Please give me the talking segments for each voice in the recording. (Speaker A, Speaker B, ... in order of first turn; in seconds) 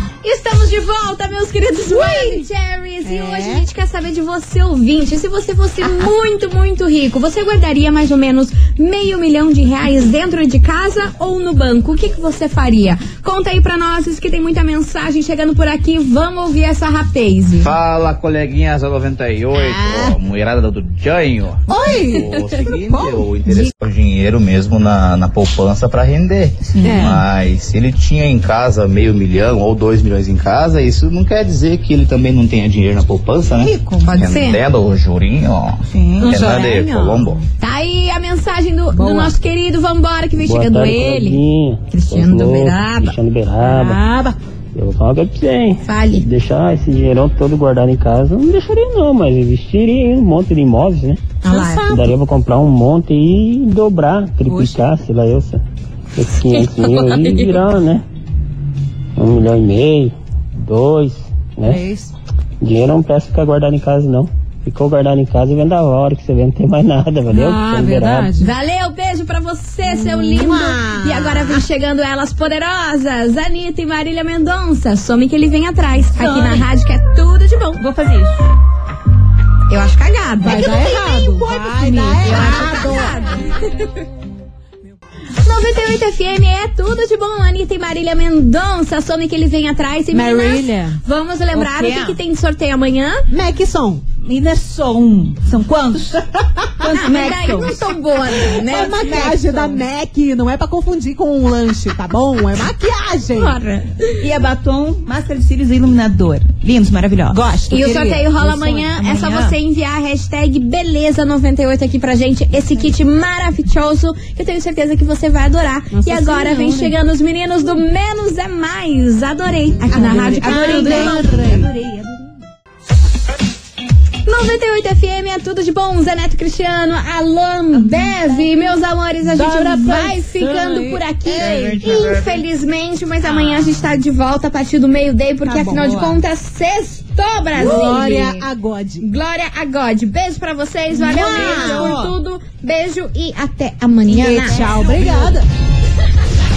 Speaker A: 0.2-17.7, 21.9-22.6, 34.0-34.6, 37.6-43.1, 45.9-46.3, 51.4-51.9, 56.6-57.5, 68.4-77.8, 79.7-81.4, 82.2-84.0, 85.4-93.3, 96.9-99.7, 103.3-104.2, 107.3-121.4, 124.3-138.4, 139.0-144.8
Speaker B: 1.9-2.5, 3.0-3.7, 19.5-20.2, 21.7-23.8, 26.8-27.2, 33.6-34.3, 36.2-37.4, 38.9-39.3, 43.6-44.4, 51.5-52.1, 54.5-54.8, 61.6-62.1, 67.3-68.5, 69.8-71.6, 80.4-83.2, 90.1-91.0, 93.3-94.0, 98.7-103.6, 115.9-116.9, 119.9-121.7, 129.2-131.9, 135.5-136.2, 137.5-139.1, 140.9-142.1, 144.1-145.5
Speaker C: 17.6-37.4
Speaker D: 26.8-27.0, 35.9-36.2, 76.2-76.7, 77.8-78.5, 81.4-82.7, 91.5-92.2, 94.2-96.2, 96.8-97.8, 98.5-99.8, 104.2-109.6, 119.9-122.3, 133.3-133.9, 141.3-141.9, 144.6-145.3
Speaker E: 40.4-44.0, 44.8-51.2, 51.8-55.6, 56.2-58.0, 59.2-61.9, 62.6-68.3